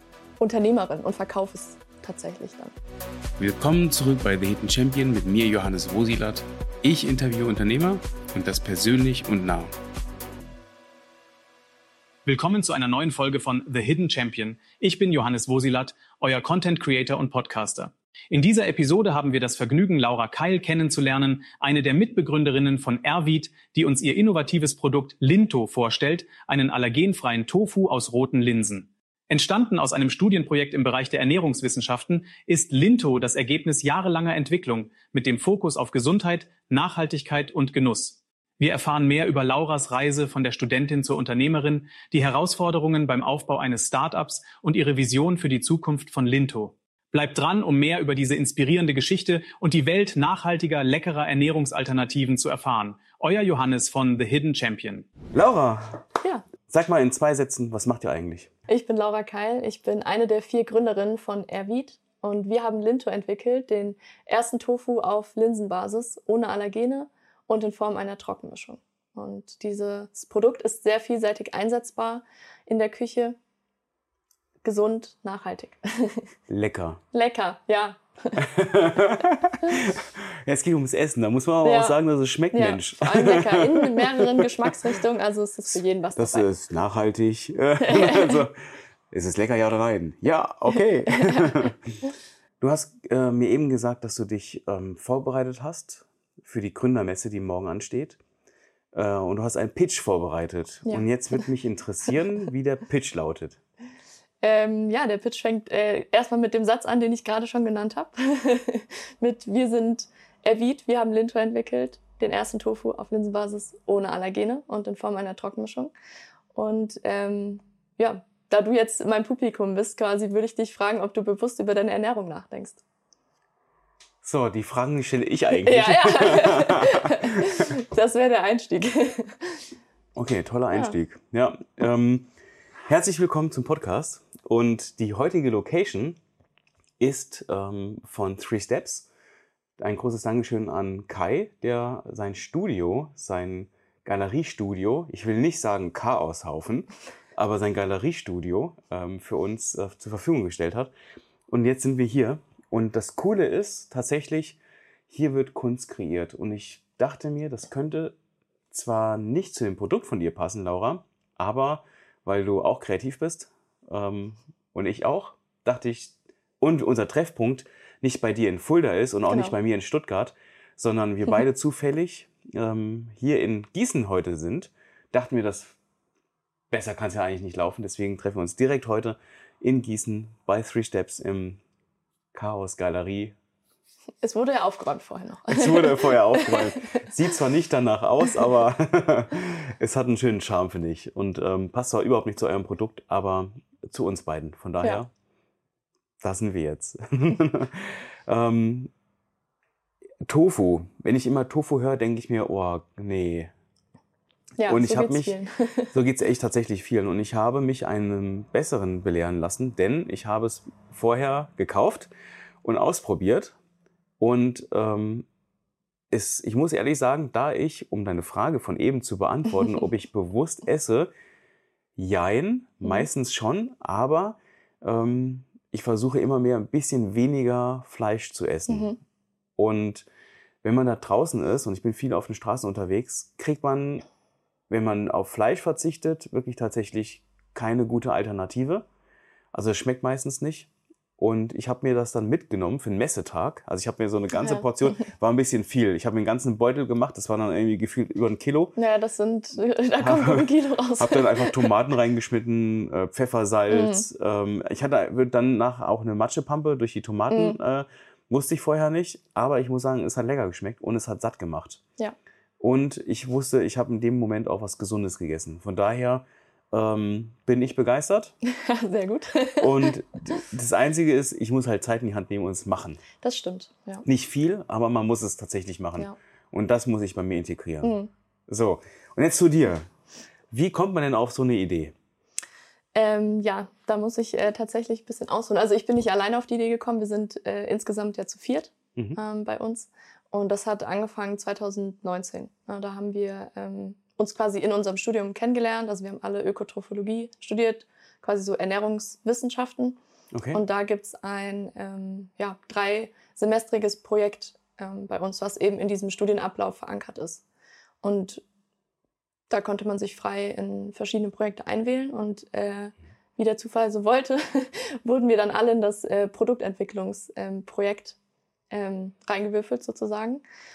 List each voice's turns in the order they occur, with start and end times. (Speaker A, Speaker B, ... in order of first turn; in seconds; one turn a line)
Speaker A: 0.4-2.8
Speaker B: 3.4-9.7
Speaker C: 12.3-55.1
Speaker B: 55.3-56.1
Speaker A: 56.2-56.5
Speaker B: 56.7-58.5
Speaker A: 58.7-73.4
Speaker A: 74.6-76.3
Speaker B: 76.5-77.0
Speaker A: 77.1-78.4
Speaker B: 78.4-84.7
Speaker A: 81.6-82.0
Speaker A: 82.5-86.5
Speaker B: 86.2-88.6
Speaker A: 87.8-88.5
Speaker B: 89.1-91.9
Speaker A: 90.8-91.7
Speaker B: 92.6-98.2
Speaker B: 98.9-103.6
Speaker A: 104.4-115.9
Speaker A: 116.5-122.8
Speaker B: 124.2-127.6
Speaker A: 125.7-129.7
Speaker B: 130.2-132.3
Speaker B: 132.9-136.2
Speaker B: 137.0-139.1
Speaker B: 139.8-150.9
Speaker B: 151.5-154.6
Speaker B: 155.1-158.2
Speaker B: 158.7-175.7
Speaker A: 169.3-169.6
Speaker B: 176.7-181.6
Speaker B: 182.3-183.4
Speaker A: 184.2-187.0
Speaker B: 185.5-195.1
Speaker B: 196.2-198.9
Speaker B: 200.3-203.5
Speaker A: 204.6-205.9
Speaker B: 204.7-205.4
Speaker B: 205.9-212.1
Speaker B: 212.6-213.6
Speaker B: 214.2-215.3
Speaker B: 216.1-221.1
Speaker B: 222.0-229.0
Speaker A: 228.7-229.0
Speaker B: 229.6-230.1
Speaker B: 230.6-234.1
Speaker B: 234.7-238.9
Speaker B: 239.5-248.8
Speaker A: 244.4-244.7
Speaker A: 248.8-251.7
Speaker B: 250.0-261.8
Speaker A: 253.7-254.1
Speaker A: 257.3-257.6
Speaker B: 262.6-268.3
Speaker A: 268.4-269.9
Speaker B: 269.6-273.0
Speaker A: 273.2-274.1
Speaker B: 274.1-278.0
Speaker A: 277.8-278.1
Speaker B: 278.5-279.9
Speaker B: 280.5-281.9
Speaker A: 282.9-300.0
Speaker B: 300.3-300.6
Speaker A: 300.5-307.4
Speaker A: 308.0-308.4
Speaker A: 309.5-318.2
Speaker A: 318.7-320.4